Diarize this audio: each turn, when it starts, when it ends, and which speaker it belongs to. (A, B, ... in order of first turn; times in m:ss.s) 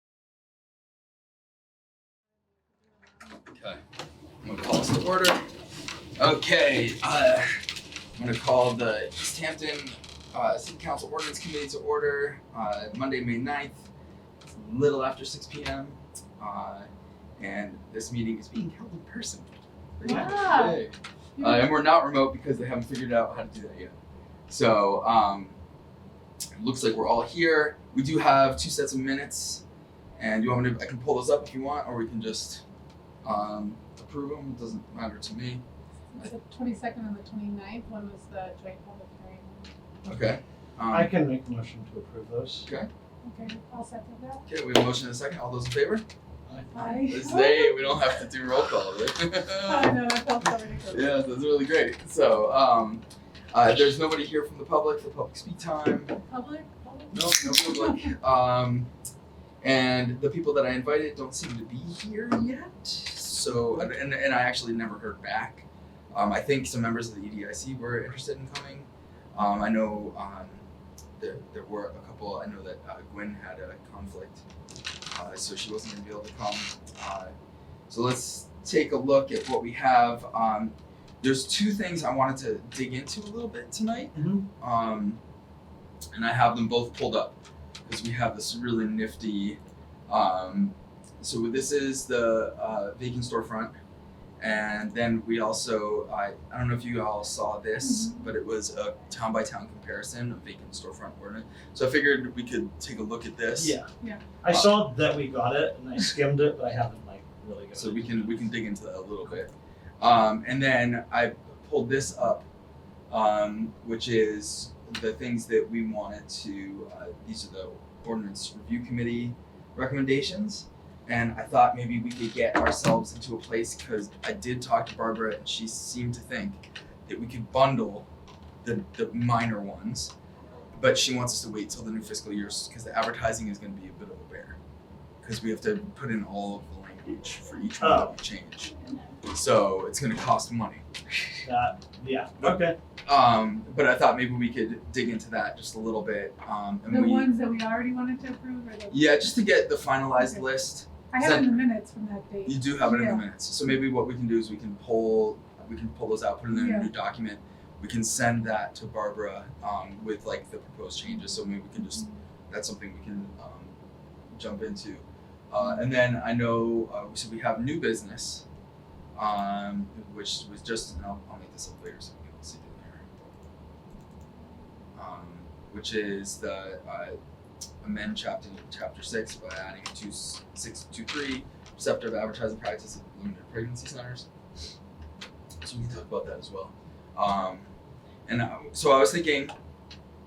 0:03.5-0:03.8 A
0:04.4-0:05.5 A
0:06.2-0:07.6 A
0:08.2-0:13.9 A
0:14.5-0:24.0 A
0:20.0-0:20.3 B
0:20.0-0:20.8 C
0:21.4-0:21.7 C
0:24.5-0:25.6 A
0:26.6-0:29.6 A
0:30.2-0:32.6 A
0:33.2-0:35.6 A
0:36.1-0:39.7 C
0:40.1-0:41.1 A
0:40.9-0:42.7 B
0:43.2-0:44.4 C
0:44.5-0:46.0 A
0:46.7-0:47.9 C
0:46.8-0:50.1 A
0:49.6-0:51.1 C
0:50.9-0:56.2 A
0:56.3-0:58.1 C
0:57.1-0:58.9 A
0:59.6-1:10.6 A
1:11.2-1:14.4 A
1:15.1-1:17.3 A
1:17.9-1:25.2 A
1:24.2-1:24.4 B
1:26.1-1:33.7 A
1:34.4-1:43.8 A
1:37.8-1:38.2 C
1:43.6-1:43.9 B
1:44.4-1:48.5 B
1:44.5-1:44.8 A
1:47.8-1:52.4 A
1:53.1-2:08.1 A
2:08.6-2:10.1 A
2:10.8-2:14.6 A
2:15.2-2:18.7 A
2:17.8-2:18.2 B
2:19.2-2:20.8 A
2:21.4-2:22.8 B
2:22.4-2:27.3 A
2:26.9-2:29.3 C
2:28.9-2:31.6 A
2:30.2-2:30.4 C
2:31.1-2:33.2 C
2:32.4-2:43.7 A
2:36.5-2:36.9 C
2:41.8-2:42.1 C
2:44.4-2:48.4 A
2:49.1-2:53.0 A
2:55.0-2:57.2 A
2:57.8-3:04.3 A
3:05.6-3:07.7 A
3:08.3-3:09.5 A